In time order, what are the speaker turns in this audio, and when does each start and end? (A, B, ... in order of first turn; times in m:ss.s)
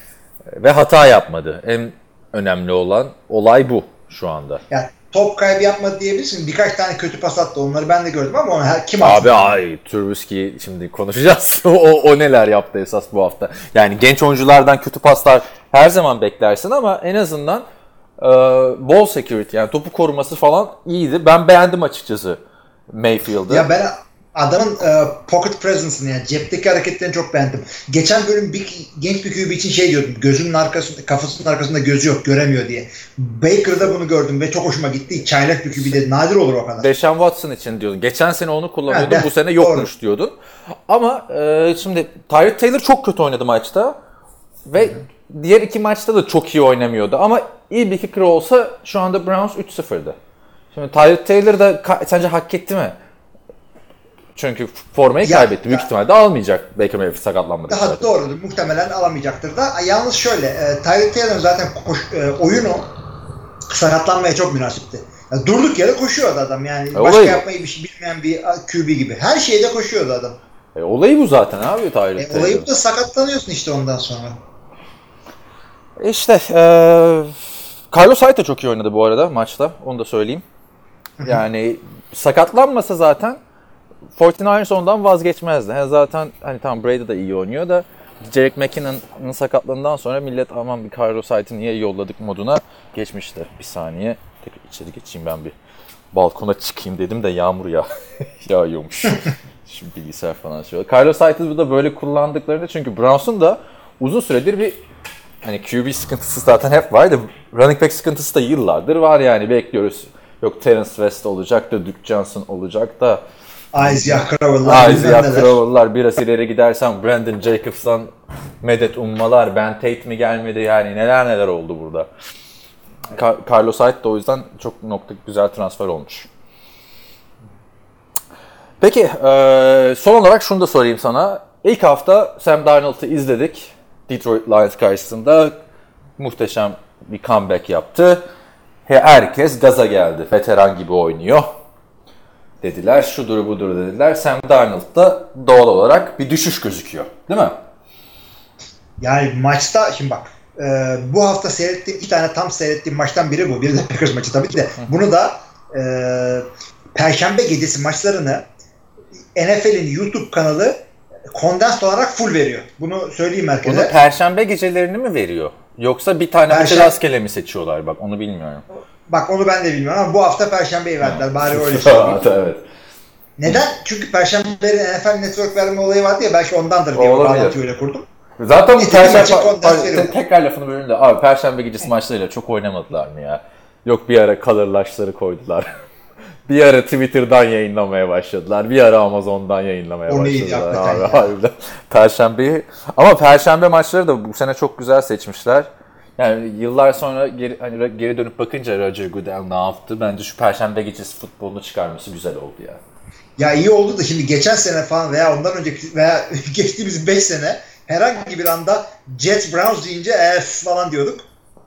0:00.6-0:04.6 A
0:04.7-0:09.6 B
0:09.0-0:17.6 A
0:18.2-0:23.7 A
0:23.5-0:36.9 B
0:36.8-0:40.3 A
0:38.9-0:39.9 B
0:40.9-0:44.0 A
0:44.7-0:50.2 A
0:50.7-0:53.0 A
0:54.4-0:58.1 A
0:55.2-0:55.8 B
0:57.7-1:02.9 B
1:03.7-1:10.4 B
1:06.9-1:07.4 A
1:10.7-1:12.7 A
1:12.2-1:14.4 B
1:16.0-1:20.4 A
1:21.2-1:23.4 A
1:24.2-1:35.5 A
1:36.1-1:37.9 A
1:38.4-1:44.8 A
1:45.4-1:53.2 A
1:53.7-1:55.6 B
1:53.8-2:02.1 A
2:03.1-2:06.3 A
2:08.8-2:15.6 A
2:16.2-2:18.2 A
2:18.8-2:21.5 A
2:22.6-2:27.6 A
2:29.0-2:38.5 B
2:39.3-2:43.9 B
2:43.6-2:48.6 A
2:46.5-2:46.9 B
2:49.0-2:52.2 B
2:51.0-2:52.6 A
2:53.4-2:58.0 B
2:56.9-2:57.6 A
2:58.4-3:05.8 A
2:58.8-3:00.1 B
3:06.5-3:22.8 A
3:10.1-3:11.3 B
3:23.4-3:31.2 B